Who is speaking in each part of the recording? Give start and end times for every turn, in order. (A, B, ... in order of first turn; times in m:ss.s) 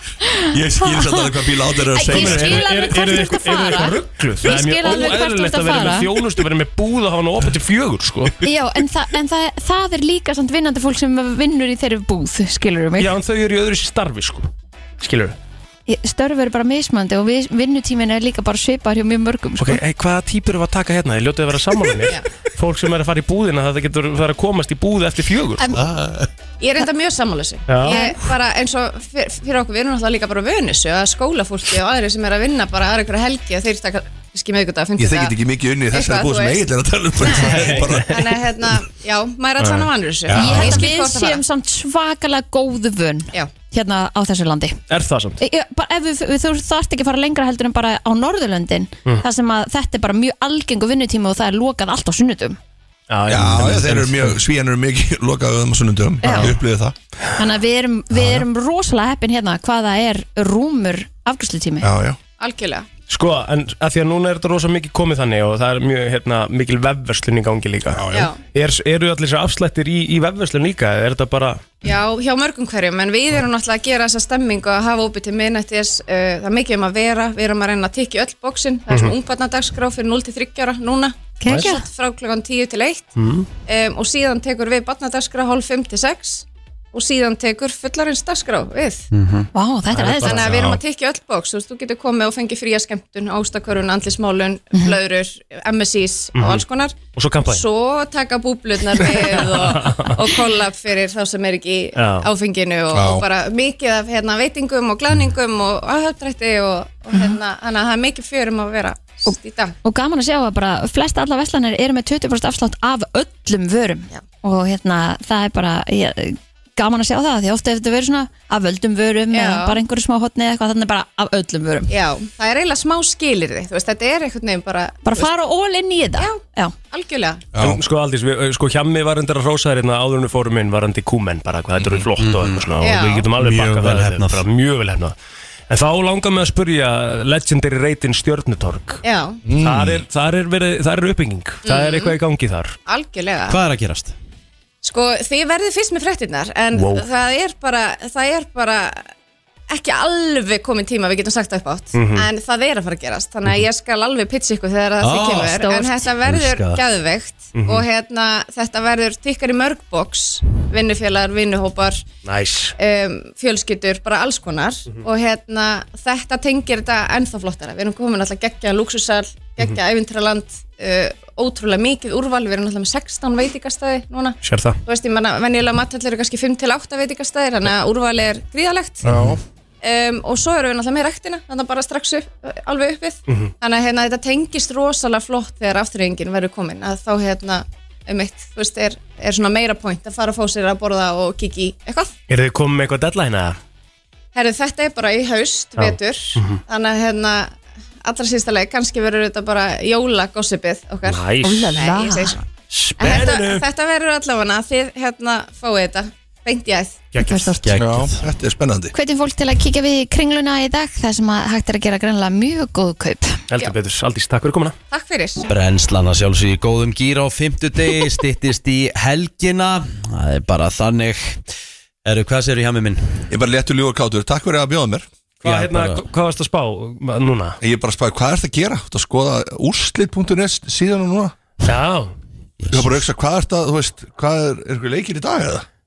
0:00.2-0:01.2 A
0:00.5-0:02.7 B
0:01.9-0:06.1 A
0:02.1-0:08.4 C
0:08.4-0:13.1 A
0:13.0-0:14.5 C
0:15.0-0:15.4 C
0:15.9-0:19.8 A
0:19.6-0:25.6 C
0:25.8-0:26.3 B
0:26.6-0:35.4 D
0:27.7-0:28.0 C
0:27.8-0:28.2 A
0:35.0-0:38.6 B
0:35.9-0:36.6 D
0:37.3-0:41.4 D
0:37.5-0:37.8 E
0:39.6-0:39.9 C
0:40.3-0:40.8 B
0:40.3-0:44.8 A
0:44.9-0:45.4 C
0:45.4-0:52.6 A
0:53.1-0:54.4 C
0:53.3-0:56.9 B
0:56.2-0:56.5 A
0:56.3-0:56.5 C
0:57.4-1:01.9 A
0:58.1-0:58.4 B
1:01.8-1:02.2 B
1:02.4-1:02.9 D
1:03.1-1:11.7 C
1:07.9-1:08.3 B
1:08.1-1:08.4 D
1:11.8-1:23.1 D
1:18.9-1:19.1 C
1:21.4-1:21.8 A
1:21.4-1:21.7 C
1:23.2-1:23.5 C
1:23.6-1:29.1 D
1:29.1-1:29.5 E
1:29.5-1:30.6 A
1:29.9-1:30.7 C
1:30.2-1:49.8 D
1:30.5-1:30.8 B
1:36.3-1:37.6 C
1:39.0-1:40.2 C
1:42.0-1:42.3 C
1:42.9-1:43.2 B
1:49.2-2:01.9 A
1:59.3-1:59.8 D
2:01.9-2:05.3 D
2:05.0-2:06.7 A
2:06.2-2:07.4 D
2:07.5-2:07.8 B
2:07.6-2:15.1 C
2:11.8-2:12.0 B
2:12.2-2:12.6 E
2:12.8-2:13.3 D
2:13.4-2:14.4 E
2:15.7-2:19.0 C
2:19.0-2:19.4 D
2:19.4-2:20.0 B
2:19.6-2:22.8 C
2:21.6-2:22.2 D
2:22.8-2:23.6 D
2:23.5-2:24.1 E
2:24.8-2:29.1 D
2:26.7-2:27.0 C
2:29.7-2:42.0 D
2:31.9-2:32.3 C
2:35.0-2:36.8 E
2:35.6-2:36.0 A
2:37.5-2:37.8 C
2:42.2-2:42.7 C
2:42.8-2:59.0 D
2:54.4-2:54.8 C
2:59.0-2:59.4 C
2:59.8-3:12.1 D
3:12.3-3:13.6 C
3:14.3-3:22.4 D
3:15.8-3:16.6 C
3:21.0-3:21.7 C
3:21.4-3:22.4 A
3:22.7-3:23.6 C
3:23.0-3:27.1 D
3:27.1-3:27.6 C
3:27.2-3:27.7 A
3:27.6-3:28.2 E
3:27.8-3:28.9 B
3:28.9-3:33.4 A
3:33.5-3:34.7 C
3:34.9-3:35.5 D
3:35.5-3:41.4 E
3:42.0-3:43.2 E
3:43.3-3:45.1 B
3:45.4-3:47.6 C
3:45.4-3:46.0 E
3:47.6-3:51.3 B
3:51.6-3:52.1 C
3:52.6-3:53.0 E
3:52.7-3:55.6 B